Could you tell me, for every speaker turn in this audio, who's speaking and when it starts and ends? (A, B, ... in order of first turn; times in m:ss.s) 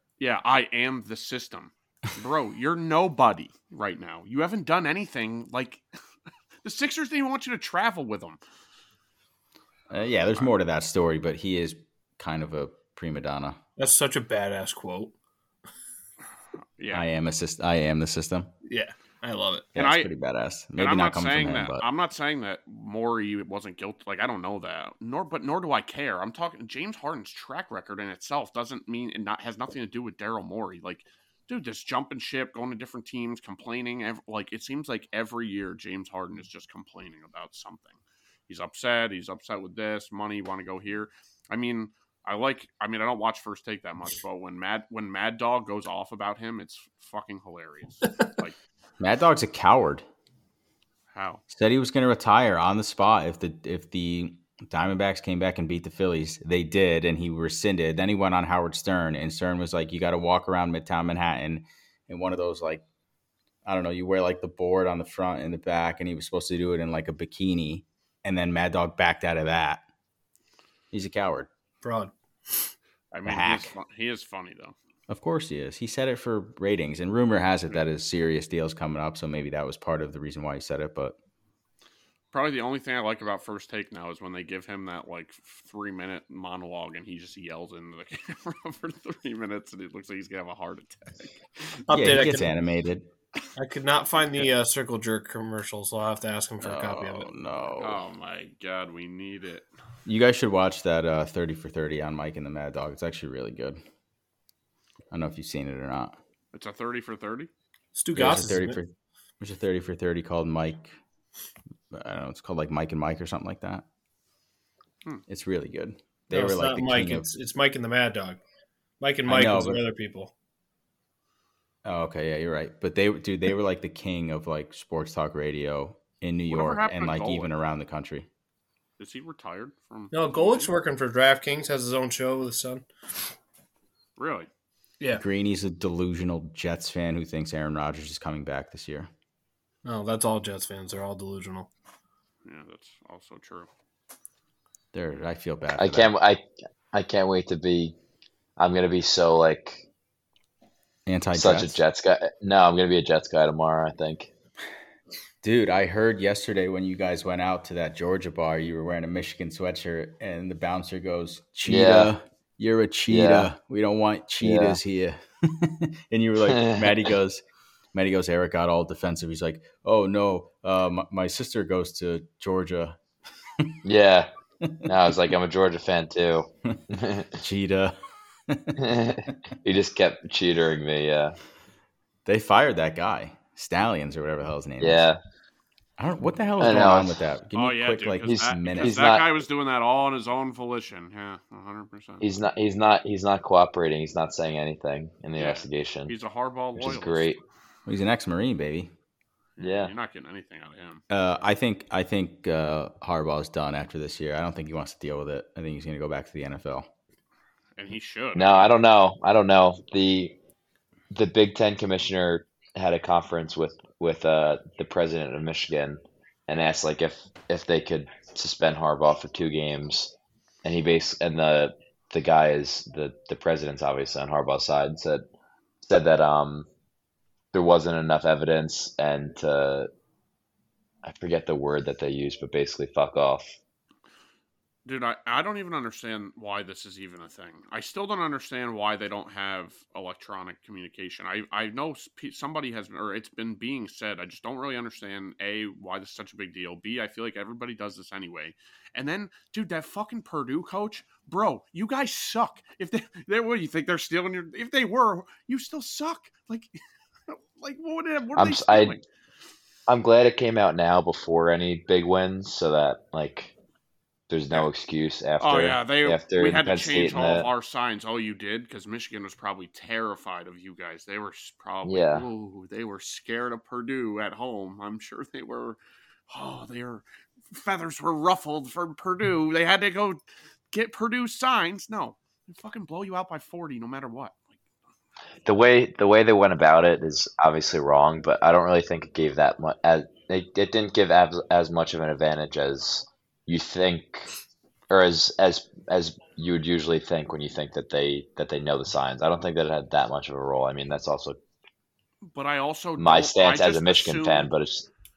0:00.2-0:05.8 A
0:06.6-0:08.4 A
0:09.9-0:13.6 B
0:13.8-0:15.1 C
0:16.8-0:17.0 A
0:16.9-0:18.5 B
0:18.6-0:19.7 C
0:19.8-0:20.1 A
0:19.8-0:21.8 B
0:20.8-0:48.6 A
0:49.0-0:50.0 B
0:51.1-0:51.4 A
0:51.5-1:02.8 B
1:03.6-1:09.8 B
1:10.9-1:11.5 B
1:11.8-1:12.7 C
1:13.1-1:14.7 A
1:13.2-1:13.7 B
1:15.1-1:21.2 B
1:22.3-1:31.8 A
1:31.9-1:32.5 C
1:31.9-1:33.1 B
1:33.6-1:37.3 C
1:36.6-1:38.0 B
1:37.8-1:39.7 A
1:40.0-1:43.8 B
1:45.1-1:46.2 B
1:46.5-1:47.5 A
1:47.9-1:48.8 C
1:48.1-1:51.0 B
1:51.9-1:53.8 B
1:55.3-1:57.3 B
1:56.3-1:58.4 C
1:59.0-2:00.3 C
1:59.3-1:59.8 B
2:01.8-2:08.3 B
2:06.5-2:07.5 A
2:09.0-2:10.7 A
2:10.1-2:12.9 C
2:14.2-2:14.5 A
2:15.1-2:19.1 B
2:19.8-2:21.7 C
2:22.4-2:23.7 A
2:24.9-2:26.1 B
2:25.8-2:27.9 D
2:28.6-2:29.8 D
2:31.1-2:31.8 B
2:31.3-2:34.3 D
2:35.4-2:47.4 B
2:41.6-2:42.1 D
2:43.1-2:43.5 D
2:44.4-2:44.8 D
2:46.5-2:46.9 D
2:47.9-2:53.0 B
2:53.8-2:54.3 D
2:54.8-2:57.4 D
2:57.4-2:58.0 B
2:58.5-2:58.8 B
2:58.8-3:01.4 D
3:02.2-3:05.1 B
3:04.8-3:05.2 D
3:06.0-3:09.0 B
3:06.6-3:07.2 D
3:07.5-3:12.3 A
3:08.3-3:09.3 D
3:12.2-3:16.1 D
3:15.4-3:17.4 A
3:16.8-3:17.4 D
3:17.9-3:18.9 B
3:19.6-3:21.0 A
3:19.6-3:19.9 D
3:21.1-3:26.9 B
3:27.8-3:28.7 A
3:28.3-3:30.3 D
3:31.1-3:45.2 D
3:45.8-3:46.7 D
3:47.5-3:49.9 D
3:51.0-3:53.6 D
3:54.8-4:16.7 A
4:17.3-4:19.0 A
4:18.3-4:19.0 D
4:19.9-4:23.5 D
4:24.3-4:27.5 D
4:25.4-4:35.8 A
4:31.8-4:32.2 D
4:36.3-4:40.2 A
4:40.7-4:44.5 A
4:45.4-4:54.3 D
4:54.9-5:01.4 D
5:02.3-5:04.5 A
5:03.0-5:04.9 D